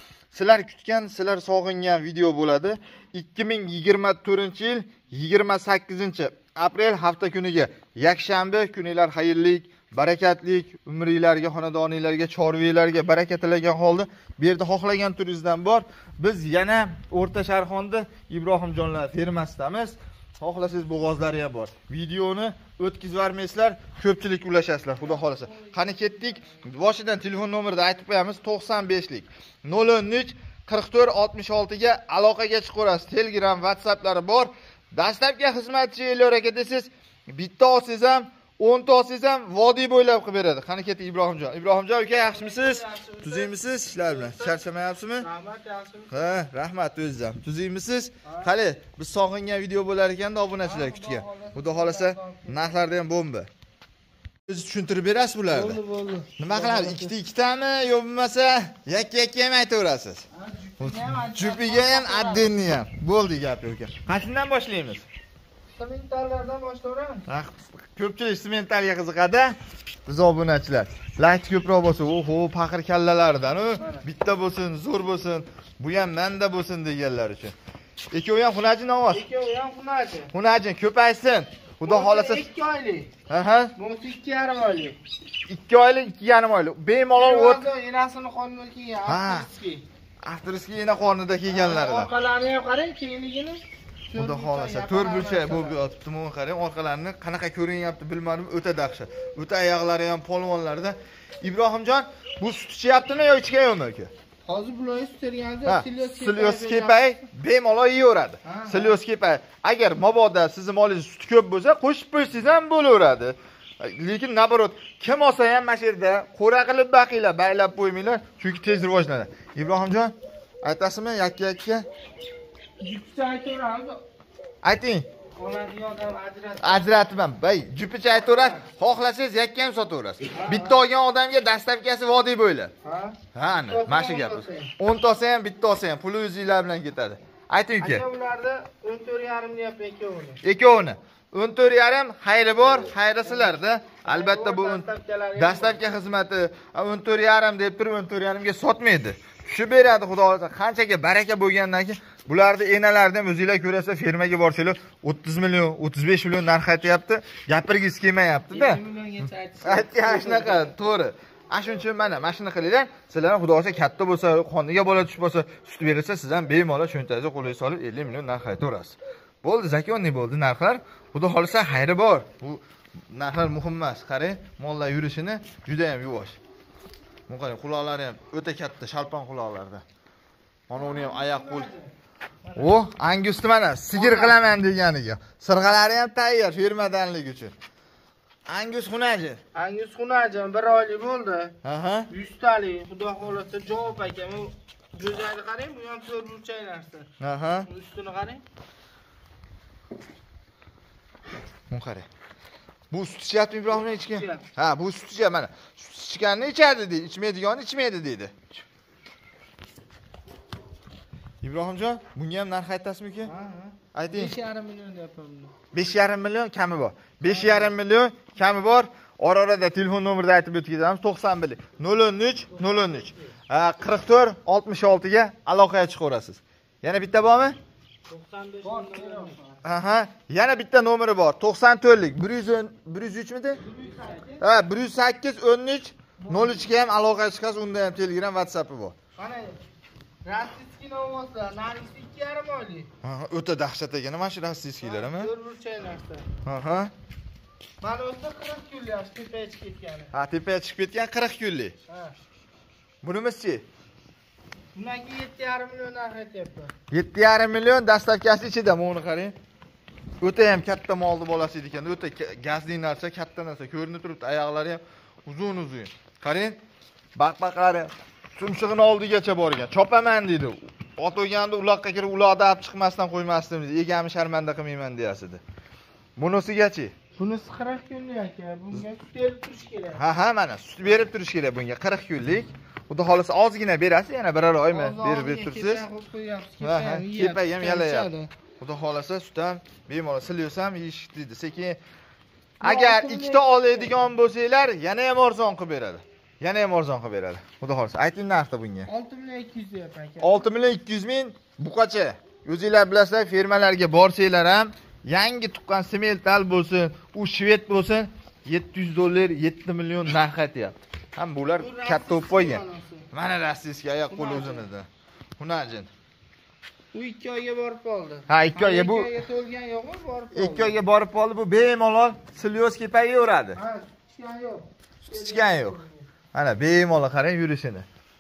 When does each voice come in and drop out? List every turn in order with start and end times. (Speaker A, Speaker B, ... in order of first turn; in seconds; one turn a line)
Speaker A: 0.3-45.3
Speaker B: 25.1-26.6
Speaker B: 42.1-44.6
Speaker B: 45.2-46.3
Speaker A: 46.1-53.5
Speaker B: 50.6-53.0
Speaker A: 54.5-55.8
Speaker B: 55.5-57.1
Speaker A: 56.4-60.3
Speaker B: 60.3-62.5
Speaker A: 60.8-65.1
Speaker B: 65.8-67.3
Speaker A: 67.3-69.5
Speaker A: 70.1-77.5
Speaker A: 78.1-79.2
Speaker B: 79.1-80.3
Speaker A: 80.3-82.5
Speaker B: 81.8-83.1
Speaker A: 83.3-83.7
Speaker B: 83.8-85.0
Speaker A: 85.5-87.7
Speaker B: 87.2-89.9
Speaker A: 89.1-89.5
Speaker A: 90.2-92.1
Speaker B: 91.5-95.8
Speaker A: 94.2-104.1
Speaker B: 104.5-107.0
Speaker A: 105.7-121.9
Speaker B: 108.4-109.0
Speaker B: 122.8-124.0
Speaker A: 124.6-125.1
Speaker B: 125.4-127.0
Speaker A: 126.6-132.7
Speaker B: 128.2-128.6
Speaker B: 130.3-130.8
Speaker B: 132.8-134.7
Speaker A: 133.3-138.1
Speaker B: 137.8-140.4
Speaker A: 140.4-158.8
Speaker B: 143.2-145.8
Speaker B: 158.5-160.7
Speaker A: 159.6-176.4
Speaker A: 177.3-179.8
Speaker A: 180.7-181.7
Speaker B: 180.8-181.9
Speaker A: 182.5-187.6
Speaker B: 183.9-184.4
Speaker A: 188.5-189.4
Speaker B: 189.5-191.6
Speaker A: 191.6-192.1
Speaker B: 192.1-197.1
Speaker A: 197.2-197.7
Speaker B: 197.7-198.4
Speaker A: 201.7-202.1
Speaker A: 202.9-208.4
Speaker B: 204.0-204.4
Speaker A: 211.4-213.3
Speaker B: 213.3-215.5
Speaker A: 213.9-214.3
Speaker A: 215.7-227.6
Speaker B: 217.2-217.7
Speaker B: 228.1-229.6
Speaker A: 229.6-233.6
Speaker B: 233.6-234.4
Speaker A: 234.4-238.9
Speaker B: 236.2-236.7
Speaker B: 239.2-239.6
Speaker B: 240.2-242.9
Speaker A: 243.0-245.3
Speaker B: 244.8-246.3
Speaker A: 246.4-246.9
Speaker B: 247.8-250.1
Speaker A: 250.1-251.8
Speaker B: 251.9-252.2
Speaker A: 253.0-253.7
Speaker B: 254.7-256.7
Speaker A: 256.9-259.4
Speaker A: 260.2-266.6
Speaker A: 267.2-275.4
Speaker A: 276.2-276.9
Speaker B: 277.2-280.0
Speaker A: 279.9-285.9
Speaker B: 284.7-288.3
Speaker A: 286.6-291.8
Speaker A: 292.6-298.9
Speaker B: 292.6-294.0
Speaker B: 298.9-300.5
Speaker A: 300.2-314.9
Speaker B: 311.4-313.1
Speaker B: 314.1-314.7
Speaker A: 315.4-315.9
Speaker B: 316.9-320.8
Speaker A: 318.3-319.1
Speaker A: 320.3-323.6
Speaker B: 323.6-326.0
Speaker A: 325.1-325.8
Speaker A: 326.3-327.9